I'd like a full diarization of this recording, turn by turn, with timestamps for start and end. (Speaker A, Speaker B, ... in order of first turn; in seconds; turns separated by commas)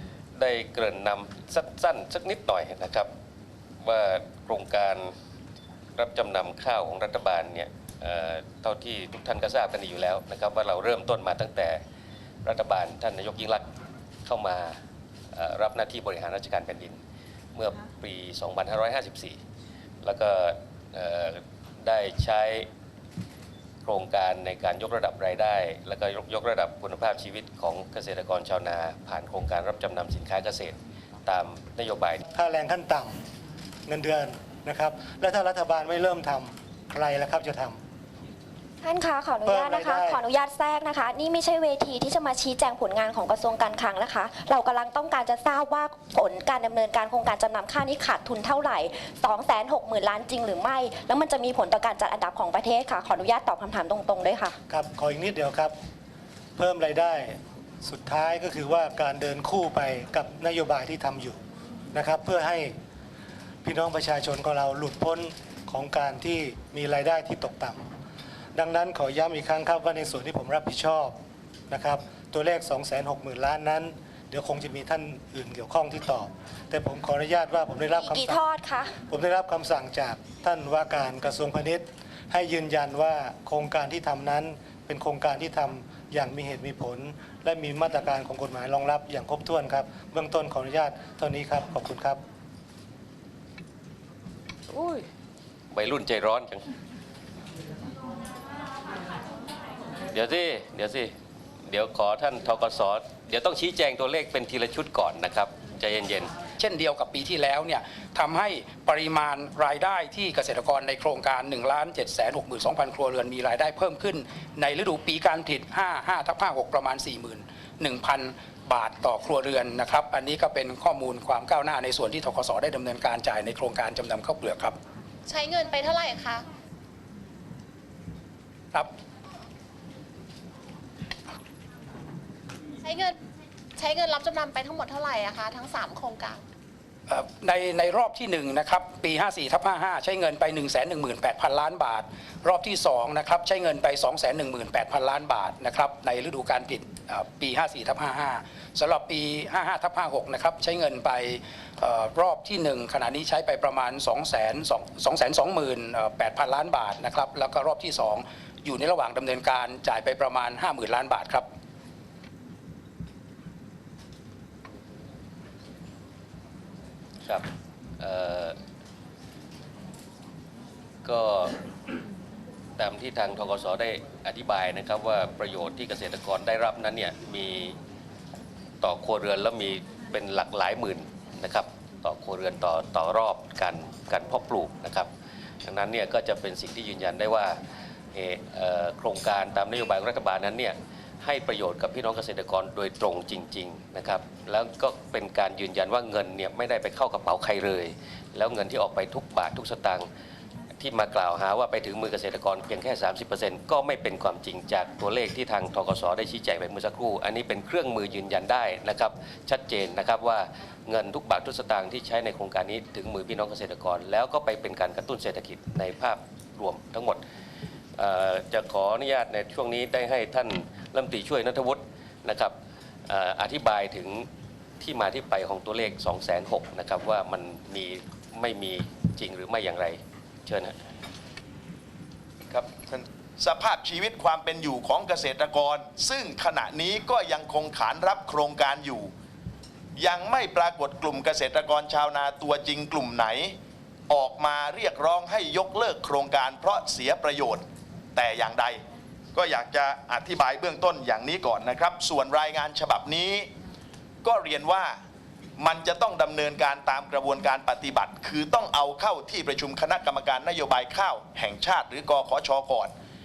Speaker A: 0.3-3.1, Speaker A: 3.8-5.1, Speaker A: 6.0-11.8, Speaker A: 12.4-13.7, Speaker A: 14.3-14.8, Speaker A: 15.3-17.0, Speaker A: 17.6-19.4, Speaker A: 20.0-22.7, Speaker A: 23.8-30.8, Speaker A: 31.3-32.2, Speaker B: 32.3-33.1, Speaker B: 33.9-37.8, Speaker C: 38.8-54.6, Speaker B: 39.4-40.2, Speaker B: 54.7-55.7, Speaker B: 56.6-61.4, Speaker B: 61.9-62.7, Speaker B: 63.6-67.8, Speaker B: 68.5-71.2, Speaker B: 71.7-78.5, Speaker C: 77.9-79.0, Speaker B: 79.1-92.2, Speaker A: 95.7-96.6, Speaker A: 100.1-101.1, Speaker A: 101.7-106.3, Speaker D: 106.6-124.8, Speaker E: 125.3-126.4, Speaker E: 132.8-133.2, Speaker E: 133.8-136.4, Speaker D: 137.1-161.5, Speaker A: 168.0-168.6, Speaker A: 171.0-171.5, Speaker A: 172.8-177.8, Speaker A: 178.8-185.1, Speaker A: 185.7-187.6, Speaker A: 188.1-200.1, Speaker A: 200.8-217.2, Speaker A: 218.0-222.5, Speaker A: 223.1-224.3, Speaker A: 224.8-230.8, Speaker F: 232.5-239.1, Speaker F: 240.0-243.6, Speaker F: 244.1-247.6, Speaker F: 248.2-248.8, Speaker F: 249.3-253.5, Speaker F: 254.2-255.0, Speaker F: 255.6-262.9